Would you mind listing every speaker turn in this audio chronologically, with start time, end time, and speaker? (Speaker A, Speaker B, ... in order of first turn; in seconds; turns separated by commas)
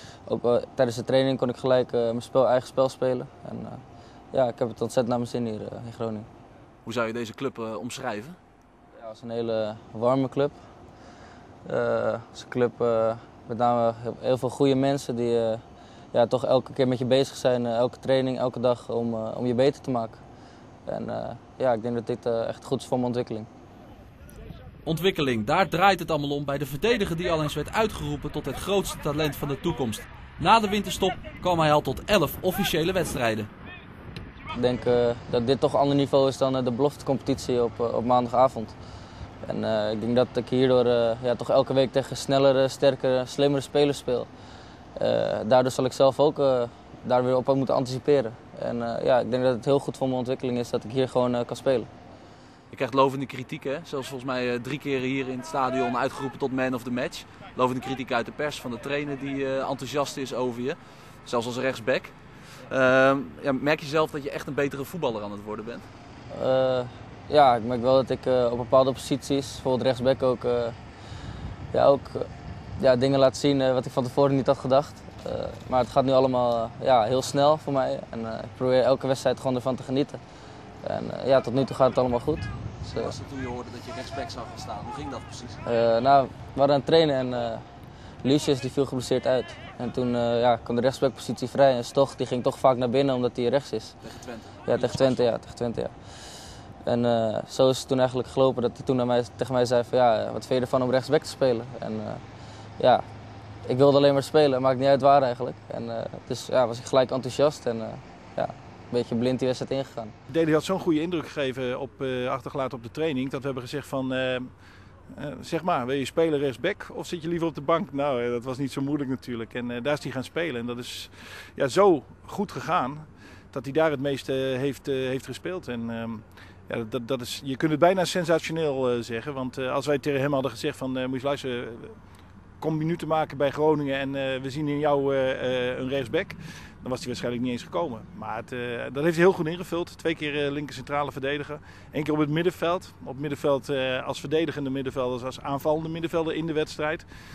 Speaker A: 0.3-6.3, Speaker B: 6.8-8.4, Speaker A: 9.0-10.6, Speaker A: 11.7-15.6, Speaker A: 16.1-20.2, Speaker A: 20.9-23.5, Speaker B: 24.9-33.5, Speaker A: 34.5-38.8, Speaker A: 39.4-44.3, Speaker A: 45.0-51.9, Speaker B: 52.7-62.1, Speaker B: 62.7-65.9, Speaker A: 66.3-70.8, Speaker A: 71.7-80.2, Speaker A: 80.8-83.1, Speaker B: 82.9-85.6, Speaker A: 85.7-87.7, Speaker A: 88.2-94.0, Speaker B: 94.0-95.3, Speaker A: 94.7-95.9, Speaker A: 96.8-102.2, Speaker A: 102.8-103.0, Speaker A: 103.7-110.2, Speaker C: 110.3-114.5, Speaker C: 115.1-132.0, Speaker C: 132.6-147.1